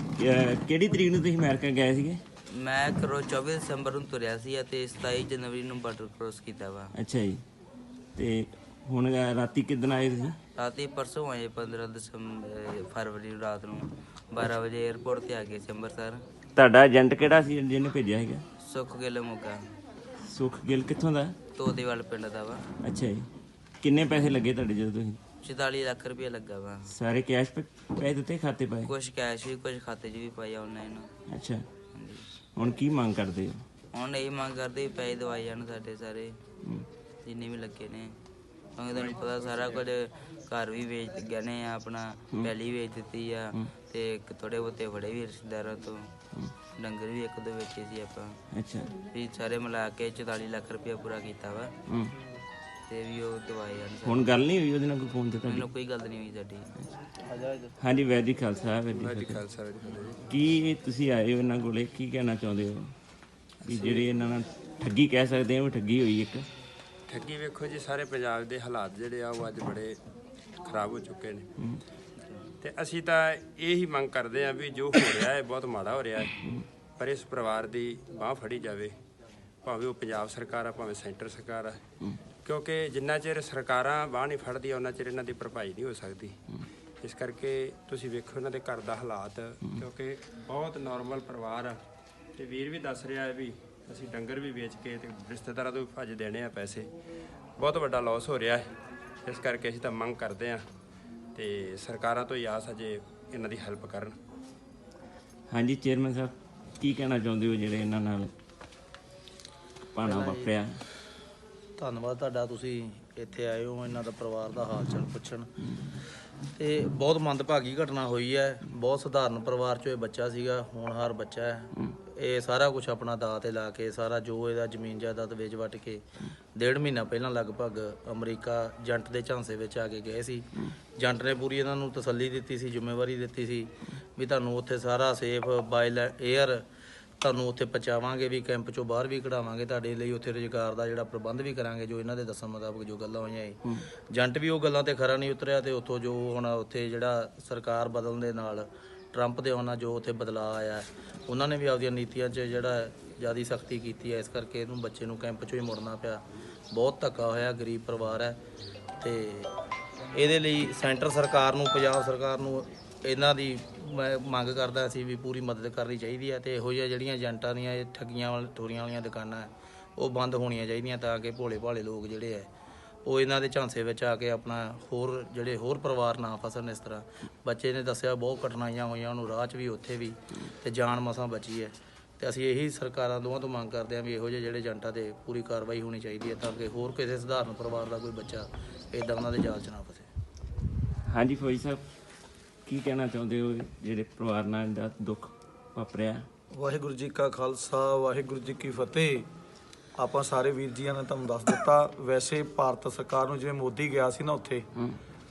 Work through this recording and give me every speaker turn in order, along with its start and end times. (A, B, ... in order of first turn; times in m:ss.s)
0:00.2-0:02.2 A
0:02.5-0:06.9 B
0:07.0-0:07.4 A
0:08.2-0:10.4 A
0:10.6-0:16.2 B
0:16.6-0:18.4 A
0:18.6-0:19.6 B
0:20.2-0:21.4 A
0:21.5-0:22.6 B
0:22.8-0:23.3 A
0:23.8-0:25.2 A
0:25.4-0:26.9 B
0:26.9-0:28.9 A
0:28.9-0:31.1 B
0:31.3-0:31.6 A
0:31.9-0:32.3 B
0:32.6-0:33.6 A
0:33.9-0:36.4 B
0:37.2-0:38.2 B
0:38.8-0:46.1 B
0:39.3-0:39.8 C
0:46.7-0:48.4 B
0:48.5-0:48.9 A
0:49.1-0:51.7 B
0:51.9-0:52.1 A
0:52.9-0:54.3 B
0:54.0-0:55.7 A
0:55.4-0:56.7 B
0:57.2-0:57.7 D
0:57.8-0:59.4 A
0:58.9-1:00.2 C
1:00.3-1:02.9 A
1:03.6-1:04.1 C
1:03.7-1:06.4 A
1:07.1-1:10.0 C
1:10.6-1:11.5 C
1:12.6-1:16.4 C
1:17.0-1:18.9 C
1:19.6-1:21.8 C
1:22.4-1:26.4 C
1:27.0-1:31.8 C
1:32.4-1:36.9 C
1:37.6-1:38.7 C
1:39.2-1:40.6 C
1:41.3-1:44.1 C
1:45.5-1:48.3 A
1:49.9-1:50.8 A
1:50.0-1:50.5 D
1:51.8-1:55.6 D
1:56.4-2:16.6 D
2:17.2-2:38.4 D
2:39.0-2:39.5 D
2:40.1-2:52.5 D
2:53.0-3:10.1 D
3:11.1-3:11.8 A
3:12.7-3:16.2 A
3:16.5-3:19.3 E
3:20.0-3:24.7 E